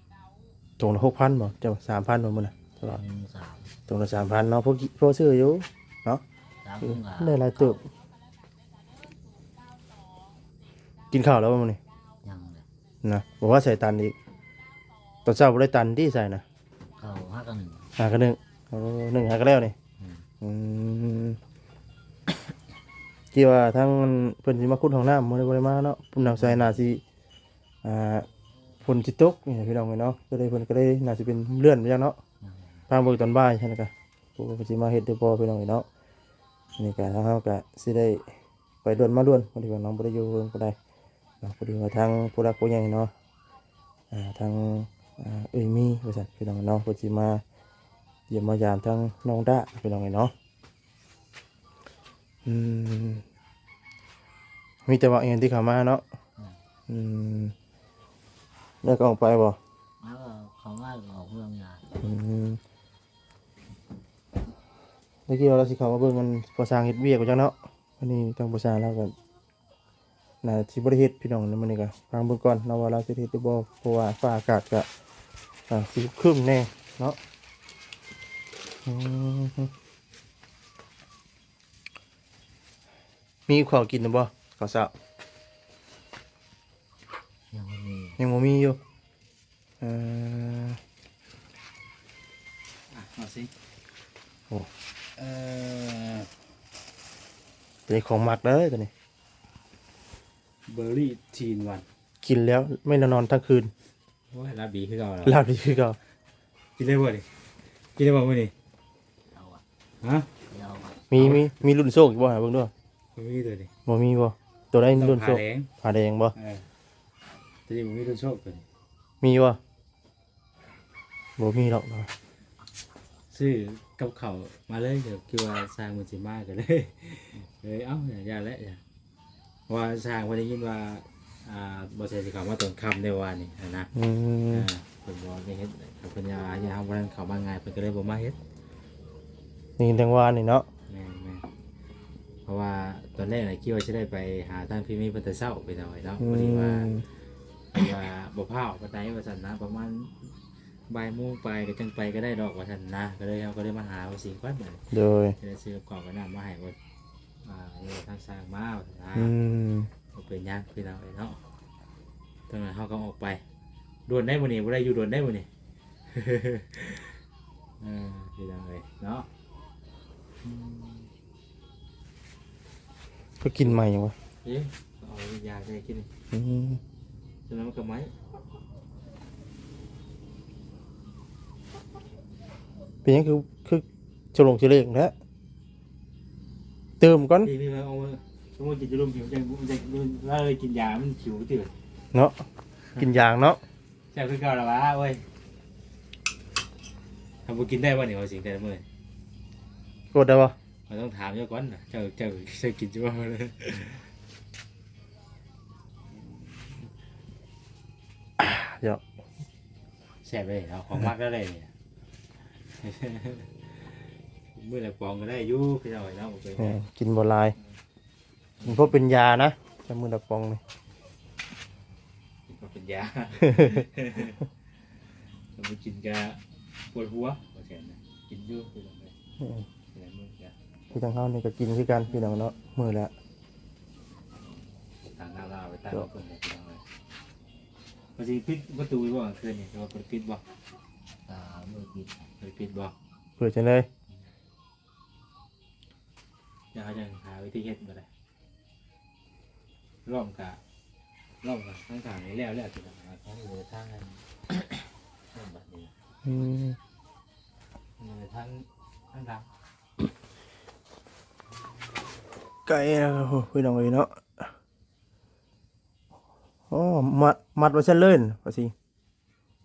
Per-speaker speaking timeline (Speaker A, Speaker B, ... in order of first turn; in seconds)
Speaker A: 0.8-3.0, 3.9-6.2, 6.8-7.8, 11.1-11.8, 13.0-14.1, 15.2-16.4, 18.0-19.8, 20.4-21.4, 23.3-27.0, 27.8-28.3, 28.8-32.2, 32.9-35.9, 36.8-38.2, 38.8-40.8, 41.4-43.1, 44.1-47.4, 48.3-50.3, 52.4-53.2, 54.9-56.0, 56.9-57.5, 58.8-59.6, 62.0-62.6, 65.3-69.1, 70.4-74.9, 75.7-77.2, 78.8-79.7, 83.5-84.9, 88.2-88.8, 89.8-90.8, 97.9-98.9, 102.2-103.7, 105.2-106.0, 111.1-112.7, 113.9-116.3, 119.2-119.6, 121.4-122.1, 133.9-134.7, 139.8-140.7, 146.2-147.1, 154.9-155.3, 159.2-159.9, 173.4-174.2, 176.3-176.8, 183.1-185.1, 187.0-187.5, 192.1-192.4, 192.9-193.6, 200.1-200.6, 208.4-209.0, 216.6-217.6, 218.6-220.6, 229.4-229.7, 230.9-233.1, 243.4-243.9, 256.2-256.8, 262.7-264.5, 266.7-268.7
Speaker B: 2.8-3.7, 6.6-7.8, 12.2-12.7, 17.0-17.9, 20.0-20.2, 26.3-26.8, 32.4-32.8, 60.0-61.9, 87.5-88.2, 109.3-109.6, 110.5-111.0, 170.5-171.1, 241.3-242.3
Speaker C: 92.9-93.5, 95.2-96.3, 100.7-101.8, 104.3-105.4, 106.8-107.2, 108.0-108.5, 110.0-110.3, 111.1-111.5, 113.2-113.7, 114.9-115.7, 116.3-116.7, 117.7-118.7, 123.3-128.8, 129.7-133.9, 134.5-138.3, 140.9-141.4, 142.4-147.0, 147.7-150.3, 150.9-154.8, 155.3-156.8, 157.4-159.3, 160.1-161.4, 162.5-163.4, 164.1-165.5, 166.1-167.1, 167.8-169.3, 174.4-176.1, 177.5-178.1, 187.4-191.7, 194.1-195.2, 197.4-198.8, 200.9-204.0, 206.1-206.9, 210.2-211.7, 212.8-213.8, 214.6-216.8, 222.5-224.4, 225.6-226.4, 226.9-229.1, 229.9-230.5, 232.1-232.4, 235.0-236.8, 238.2-240.4, 242.4-242.9, 246.7-248.1, 250.1-250.6, 251.4-255.9, 258.0-259.4